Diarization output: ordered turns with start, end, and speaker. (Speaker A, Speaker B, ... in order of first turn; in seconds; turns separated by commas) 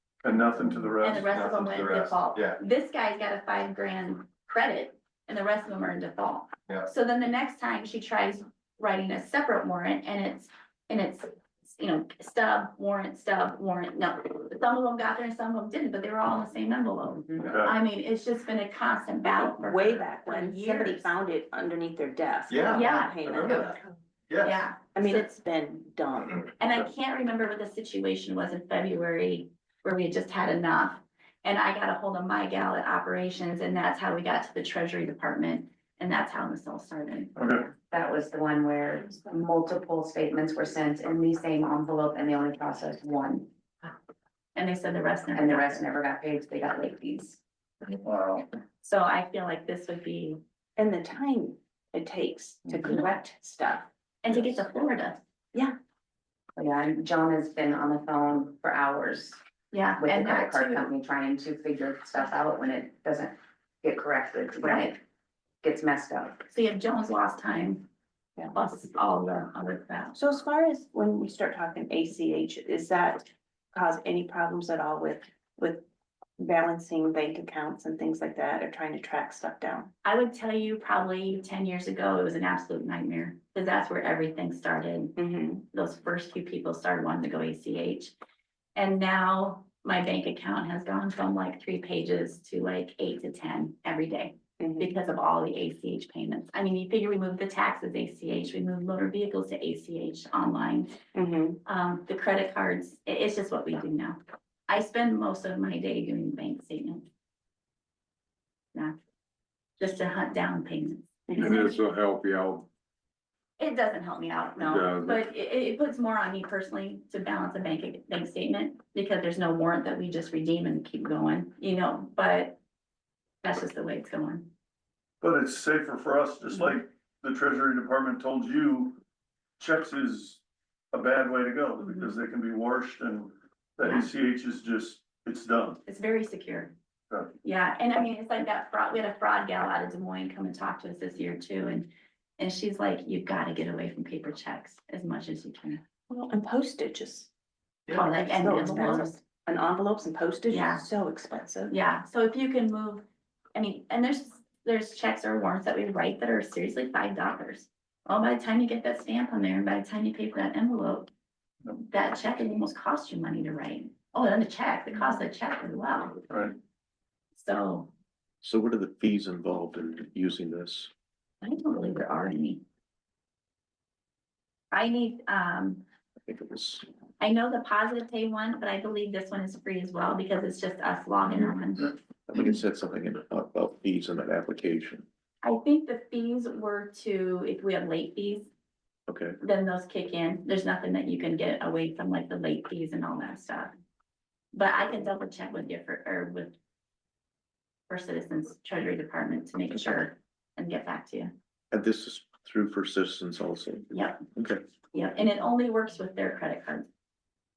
Speaker A: 0.2-1.3, Speaker B: 1.0-21.1, Speaker C: 1.2-2.6, Speaker D: 19.2-23.9, Speaker C: 22.5-24.6, Speaker B: 22.7-23.1, Speaker B: 24.4-25.2, Speaker D: 24.9-26.5, Speaker B: 26.6-37.3, Speaker A: 37.4-37.7, Speaker E: 37.6-43.5, Speaker B: 44.5-45.8, Speaker E: 45.3-47.4, Speaker A: 48.0-48.4, Speaker B: 48.8-50.4, Speaker D: 50.8-53.9, Speaker B: 54.2-55.2, Speaker E: 56.5-59.4, Speaker B: 59.7-60.9, Speaker E: 60.0-65.0, Speaker B: 64.6-65.0, Speaker E: 65.6-66.4, Speaker B: 66.5-67.9, Speaker B: 68.5-70.2, Speaker D: 70.1-75.8, Speaker D: 76.4-79.9, Speaker B: 80.0-85.1, Speaker D: 85.2-85.6, Speaker B: 85.7-88.1, Speaker B: 88.7-101.0, Speaker D: 94.6-94.9, Speaker D: 101.1-101.6, Speaker B: 101.7-107.0, Speaker B: 109.8-111.7, Speaker D: 111.3-111.6, Speaker F: 111.3-112.7, Speaker B: 113.6-122.6, Speaker F: 114.6-115.2, Speaker B: 123.4-124.5, Speaker A: 125.2-129.0, Speaker A: 129.6-135.8, Speaker B: 135.8-136.7, Speaker B: 137.4-145.8, Speaker D: 146.1-147.3, Speaker B: 147.9-149.2, Speaker D: 147.9-151.7, Speaker B: 150.5-150.8, Speaker B: 151.7-161.1, Speaker B: 161.8-166.2, Speaker B: 167.3-167.9, Speaker G: 168.4-170.9, Speaker B: 171.4-172.6, Speaker B: 174.7-175.8, Speaker G: 176.2-176.8, Speaker B: 177.2-181.9, Speaker G: 182.3-185.1, Speaker B: 185.4-188.5, Speaker G: 189.1-189.4, Speaker B: 189.4-193.7, Speaker B: 194.5-196.5, Speaker B: 197.9-201.3, Speaker G: 201.7-204.6, Speaker B: 203.9-204.2, Speaker B: 204.9-206.9